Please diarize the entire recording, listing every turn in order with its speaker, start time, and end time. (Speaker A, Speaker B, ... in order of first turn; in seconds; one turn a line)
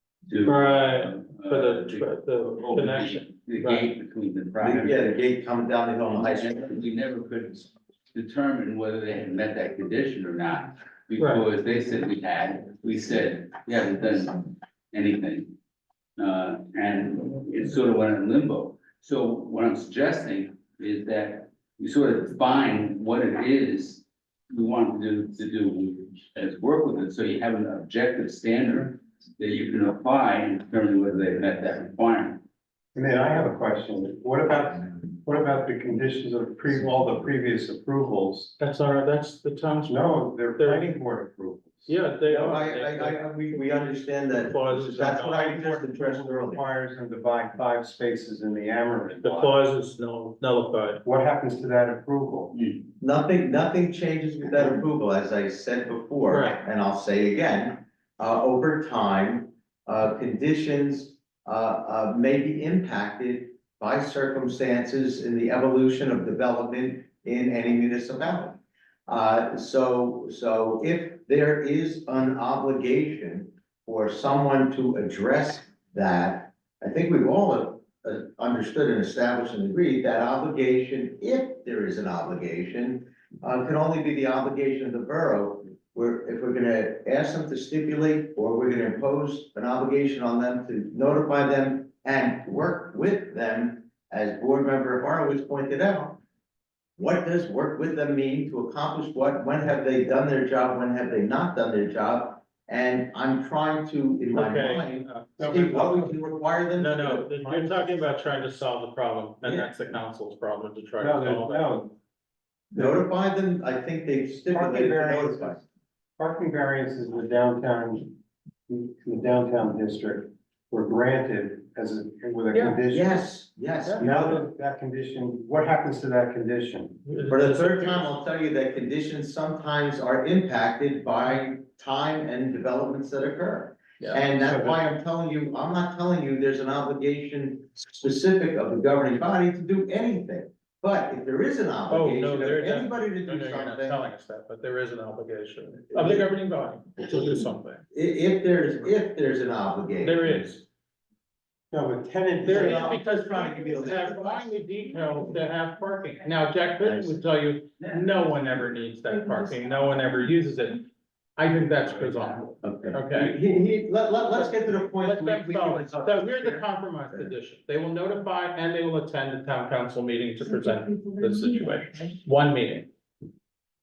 Speaker A: 0.3-5.0
Speaker B: 0.4-3.9
Speaker C: 4.6-6.5
Speaker A: 6.1-15.5
Speaker B: 11.2-11.4
Speaker A: 16.2-32.4
Speaker D: 32.9-38.5
Speaker B: 38.6-40.9
Speaker D: 39.9-41.9
Speaker B: 41.9-43.2
Speaker C: 42.2-46.6
Speaker B: 44.4-45.5
Speaker D: 45.5-49.5
Speaker B: 49.2-51.0
Speaker D: 51.0-52.5
Speaker A: 52.5-52.9
Speaker C: 53.0-96.2
Speaker B: 56.3-56.6
Speaker C: 97.0-108.0
Speaker B: 104.3-106.1
Speaker D: 105.4-105.9
Speaker B: 106.7-111.7
Speaker C: 109.4-109.7
Speaker D: 111.0-111.9
Speaker C: 112.7-115.6
Speaker D: 112.7-113.0
Speaker D: 114.5-115.6
Speaker D: 116.2-118.2
Speaker D: 118.7-123.2
Speaker B: 122.5-122.8
Speaker C: 122.9-124.4
Speaker D: 124.0-127.0
Speaker B: 127.0-128.1
Speaker C: 127.3-144.1
Speaker B: 134.0-134.8
Speaker B: 141.9-147.8
Speaker C: 145.9-146.3
Speaker C: 147.9-150.4
Speaker B: 150.0-150.6
Speaker D: 151.7-152.9
Speaker C: 152.4-154.6
Speaker B: 152.4-160.8
Speaker B: 161.4-163.3
Speaker C: 162.6-167.3
Speaker B: 164.3-172.9